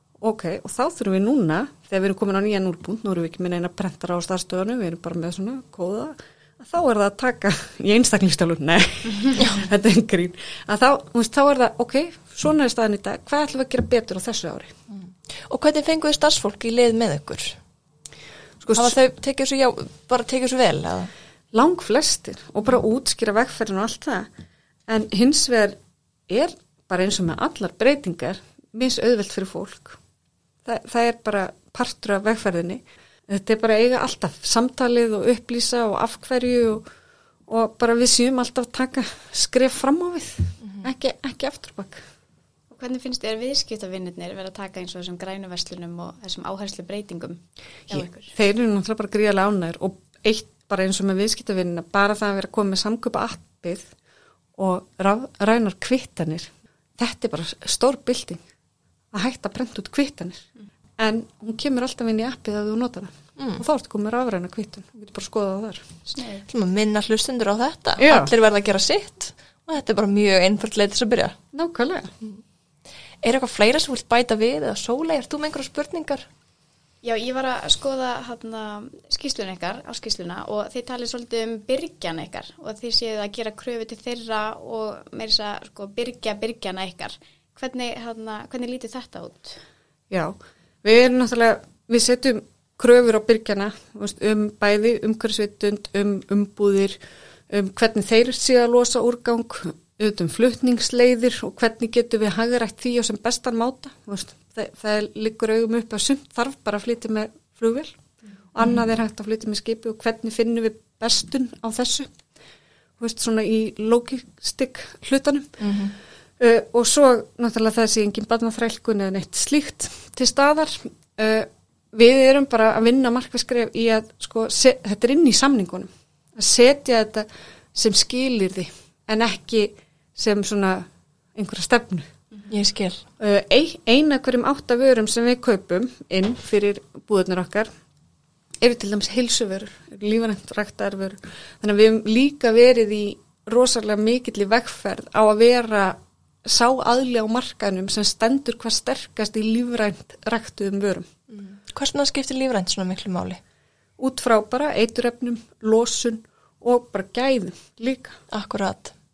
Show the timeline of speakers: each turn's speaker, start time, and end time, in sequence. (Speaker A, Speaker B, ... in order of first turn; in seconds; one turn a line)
Speaker A: 0.2-14.8
Speaker B: 15.5-17.6
Speaker A: 18.6-18.9
Speaker B: 18.7-21.1
Speaker A: 21.5-24.3
Speaker A: 24.9-30.0
Speaker A: 30.6-36.9
Speaker A: 37.5-42.0
Speaker C: 42.7-48.3
Speaker A: 47.9-53.9
Speaker A: 54.6-58.4
Speaker A: 59.1-60.5
Speaker A: 61.0-65.8
Speaker C: 66.1-66.4
Speaker B: 66.4-71.4
Speaker A: 68.0-68.3
Speaker A: 71.5-72.1
Speaker B: 73.2-76.2
Speaker C: 77.0-89.6
Speaker A: 90.1-97.0
Speaker A: 97.5-108.0
Speaker A: 108.5-112.1
Speaker A: 113.0-115.7
Speaker B: 115.6-115.9
Speaker A: 116.4-132.1
Speaker B: 132.5-133.0
Speaker A: 133.2-137.7
Speaker A: 138.6-151.1
Speaker B: 151.3-153.4
Speaker A: 154.0-158.2
Speaker B: 158.3-158.9